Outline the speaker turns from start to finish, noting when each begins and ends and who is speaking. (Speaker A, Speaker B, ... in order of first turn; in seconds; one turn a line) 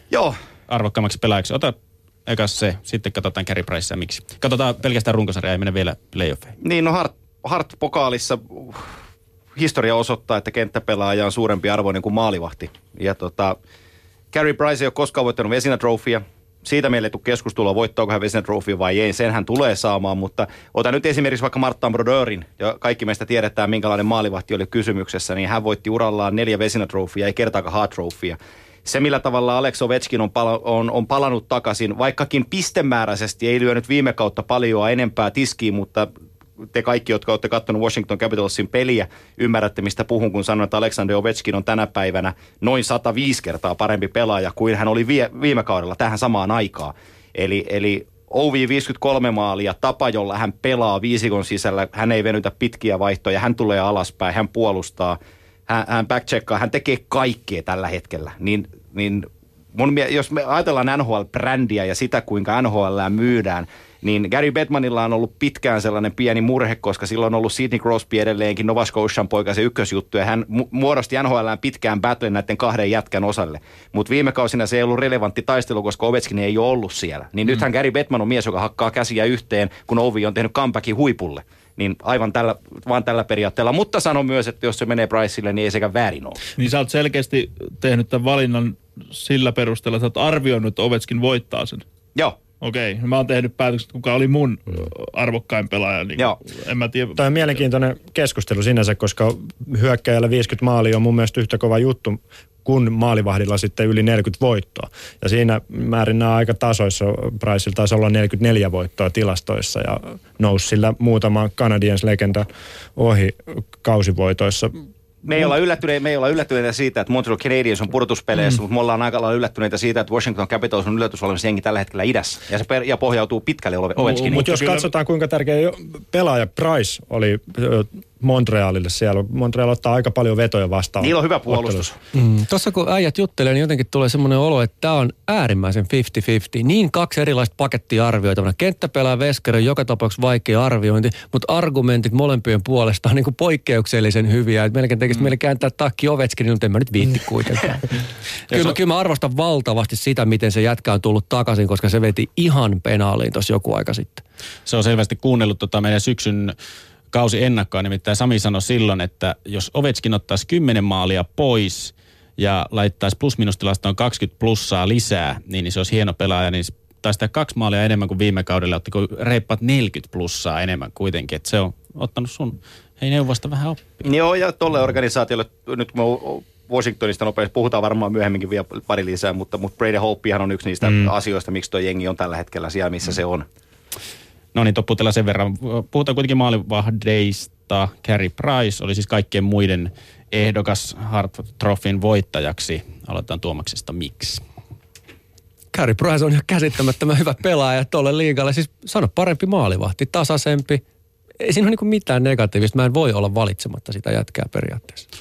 Speaker A: 0.7-1.7
Speaker A: 2.2-6.5
Speaker B: 6.6-8.9
Speaker B: 9.6-13.6
Speaker B: 14.3-36.1
Speaker B: 36.7-86.4
Speaker C: 86.6-91.8
Speaker C: 92.6-97.6
Speaker D: 97.2-114.7
Speaker B: 115.2-124.5
Speaker C: 124.0-124.9
Speaker D: 124.2-131.9
Speaker B: 131.0-132.0
Speaker E: 132.1-148.0
Speaker E: 148.5-154.2
Speaker A: 154.7-156.5
Speaker A: 157.1-174.0
Speaker B: 174.0-183.4
Speaker A: 184.5-194.4
Speaker E: 195.7-200.8
Speaker E: 201.4-205.0